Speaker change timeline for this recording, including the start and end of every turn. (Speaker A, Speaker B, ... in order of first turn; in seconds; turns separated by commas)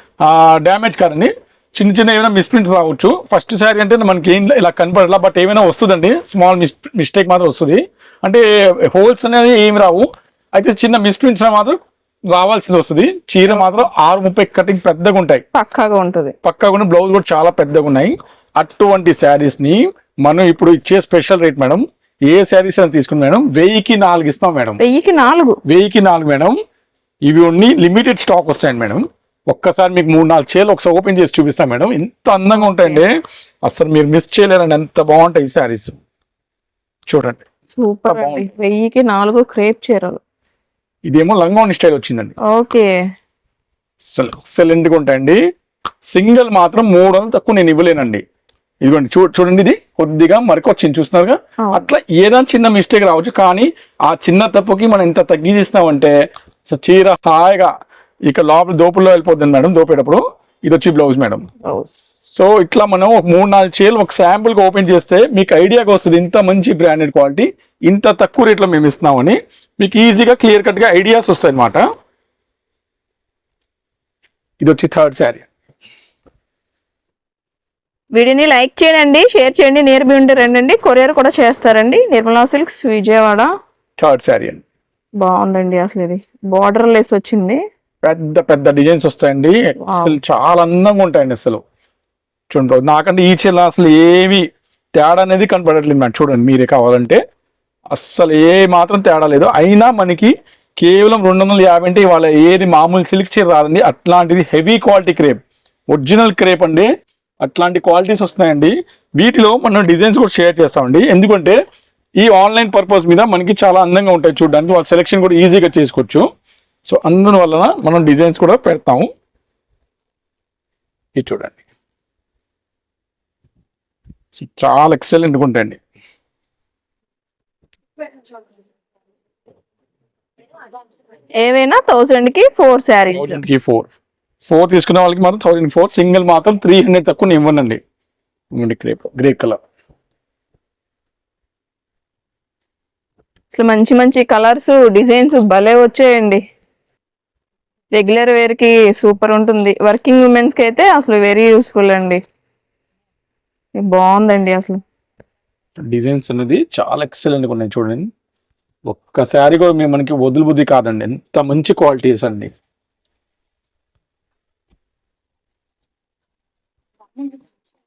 Speaker A: 0.2-11.8, Speaker A: 12.3-15.4, Speaker B: 15.5-16.4, Speaker A: 16.4-24.8, Speaker B: 24.8-25.6, Speaker A: 25.7-26.6, Speaker A: 27.3-33.1, Speaker B: 32.5-33.0, Speaker A: 33.6-36.0, Speaker A: 37.1-37.5, Speaker B: 37.8-40.2, Speaker A: 38.1-38.5, Speaker A: 41.1-42.4, Speaker B: 42.5-42.9, Speaker A: 44.0-45.4, Speaker A: 46.1-48.2, Speaker A: 48.8-56.1, Speaker B: 51.6-51.9, Speaker A: 56.7-57.7, Speaker A: 58.3-61.5, Speaker B: 61.6-62.0, Speaker A: 62.3-71.8, Speaker A: 74.6-75.5, Speaker B: 78.2-83.5, Speaker A: 84.0-84.6, Speaker B: 85.2-87.6, Speaker A: 88.0-91.6, Speaker B: 89.8-90.2, Speaker A: 92.5-97.2, Speaker A: 97.9-106.9, Speaker A: 107.4-111.6, Speaker A: 112.2-116.3, Speaker A: 116.9-119.1, Speaker A: 121.2-121.6, Speaker A: 124.3-125.8, Speaker B: 131.4-133.4, Speaker A: 133.1-133.9, Speaker A: 134.4-137.8, Speaker A: 138.5-139.6, Speaker B: 143.5-146.4, Speaker B: 147.9-152.2, Speaker B: 153.8-154.8, Speaker A: 155.9-158.1, Speaker A: 158.9-162.5